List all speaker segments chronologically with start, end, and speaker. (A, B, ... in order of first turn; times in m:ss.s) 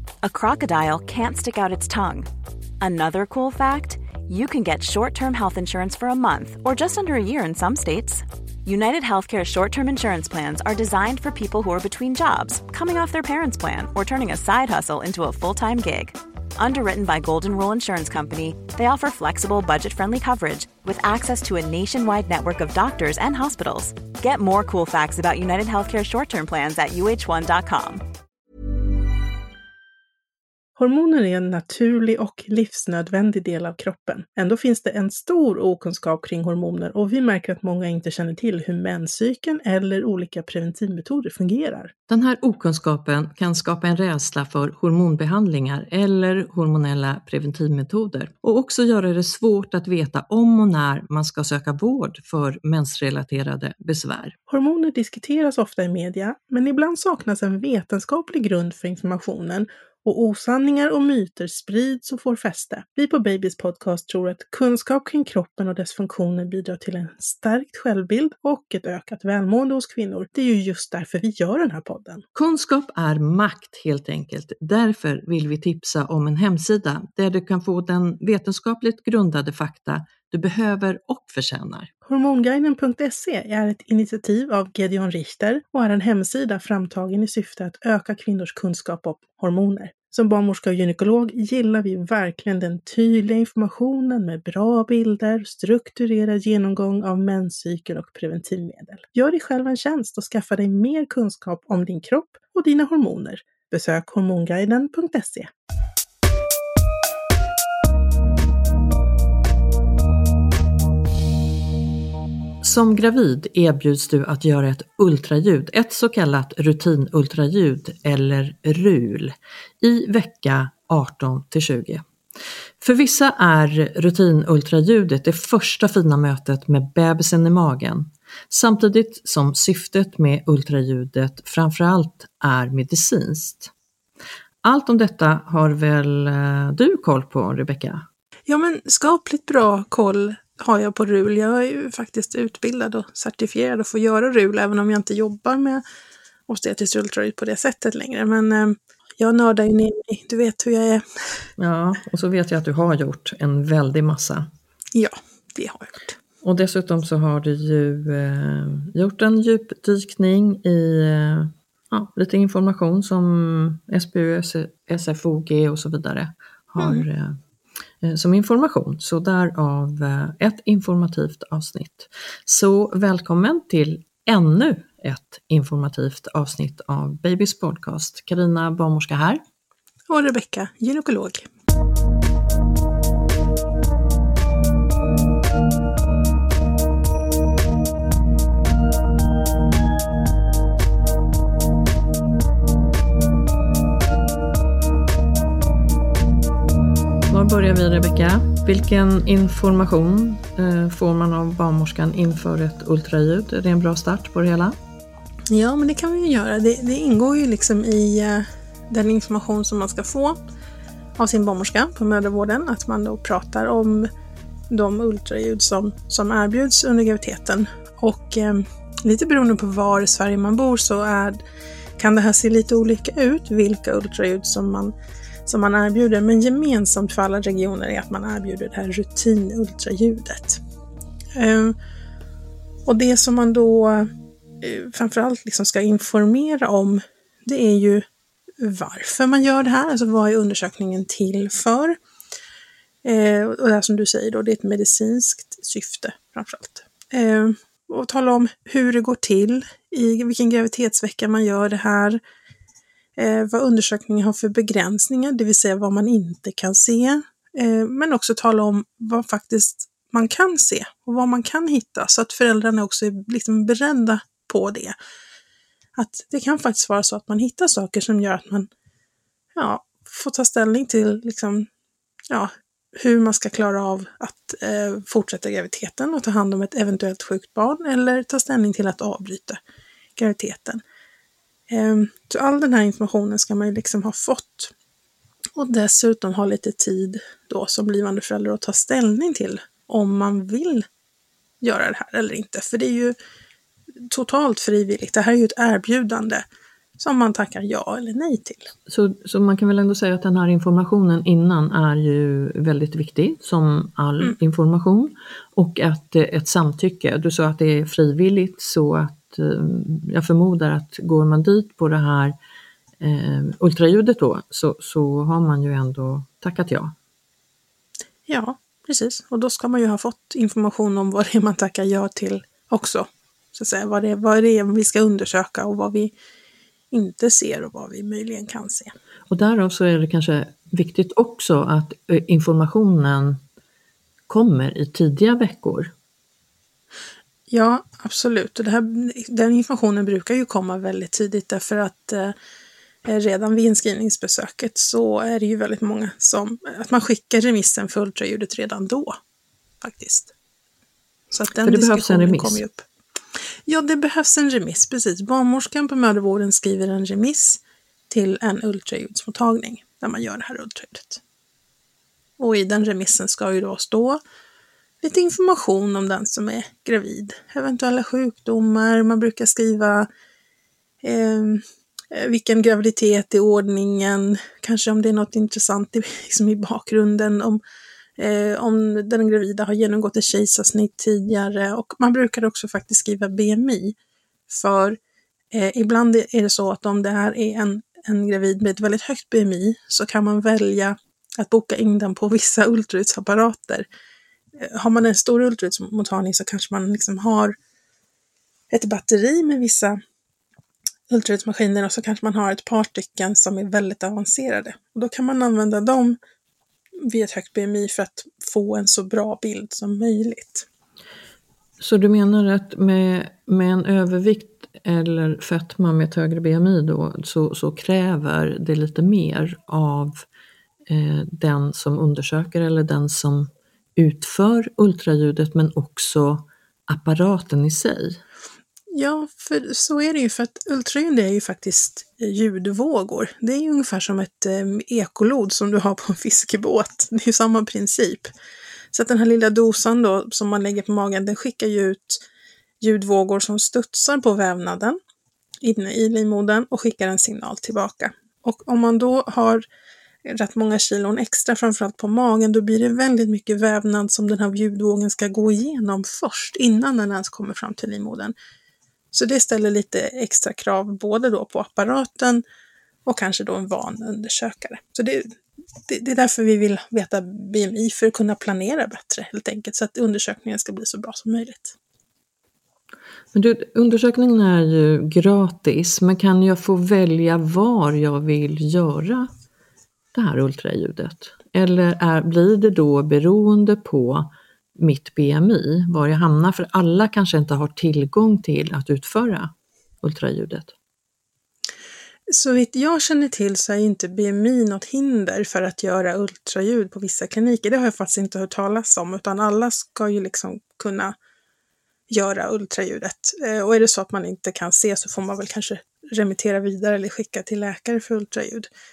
0:00.2-0:02.3 A
0:02.8-0:28.0 A
0:30.8-0:41.9 B
0:42.1-0:54.4 C
0:54.5-1:12.2 B
1:12.4-1:21.9 C
1:22.1-1:45.5 B
1:52.6-2:02.0 C
2:02.8-2:13.7 C
2:14.6-2:18.1 C
2:18.5-2:25.8 B
2:26.5-2:31.5 B
2:31.6-2:34.5 C
2:34.9-2:36.2 B
2:36.4-2:47.4 C
2:46.8-2:47.0 B
2:48.0-2:59.4 C
3:00.1-3:01.5 B
3:17.3-3:24.8 C
3:25.5-3:30.4 B
3:31.2-3:34.1 B
3:34.7-3:41.4 B
3:42.0-3:45.0 B
3:45.5-3:50.6 B
3:51.4-3:51.8 B
3:52.9-3:58.0 B
3:58.6-4:02.0 B
4:03.0-4:12.2 B
4:13.2-4:25.0 B
4:26.0-4:28.7 B
4:29.6-4:31.7 B
4:32.3-4:39.6 B
4:40.2-4:40.8 B
4:41.7-4:44.7 B
4:45.6-4:50.9 B
4:51.6-4:53.2 B
4:54.1-4:56.4 B
4:57.0-4:58.7 B
4:58.9-5:12.4 C
5:13.0-5:16.9 C
5:18.3-5:26.1 B
5:26.9-5:28.9 B
5:29.3-5:33.4 C
5:34.3-5:35.9 C
5:37.5-5:42.3 B
5:43.0-5:49.2 B
5:49.8-5:50.3 B
5:51.3-5:52.8 B
5:51.6-5:52.6 C
5:53.7-6:01.2 B
6:02.4-6:04.2 B
6:05.0-6:10.1 B
6:11.0-6:17.6 B
6:18.2-6:24.0 B
6:24.5-6:25.0 B
6:25.5-6:33.9 B
6:34.6-6:37.6 B
6:38.7-6:40.0 B
6:41.1-6:46.2 B
6:47.0-6:50.7 B
6:51.8-7:00.3 C
7:00.9-7:08.2 C
7:08.9-7:18.3 B
7:18.9-7:22.2 B
7:22.8-7:25.0 B
7:25.6-7:29.6 B
7:30.3-7:38.3 B
7:39.1-7:42.4 B
7:43.1-7:45.3 B
7:45.9-7:51.8 B
7:53.3-7:59.3 C
8:00.1-8:10.7 C
8:12.3-8:21.2 B
8:22.1-8:28.7 B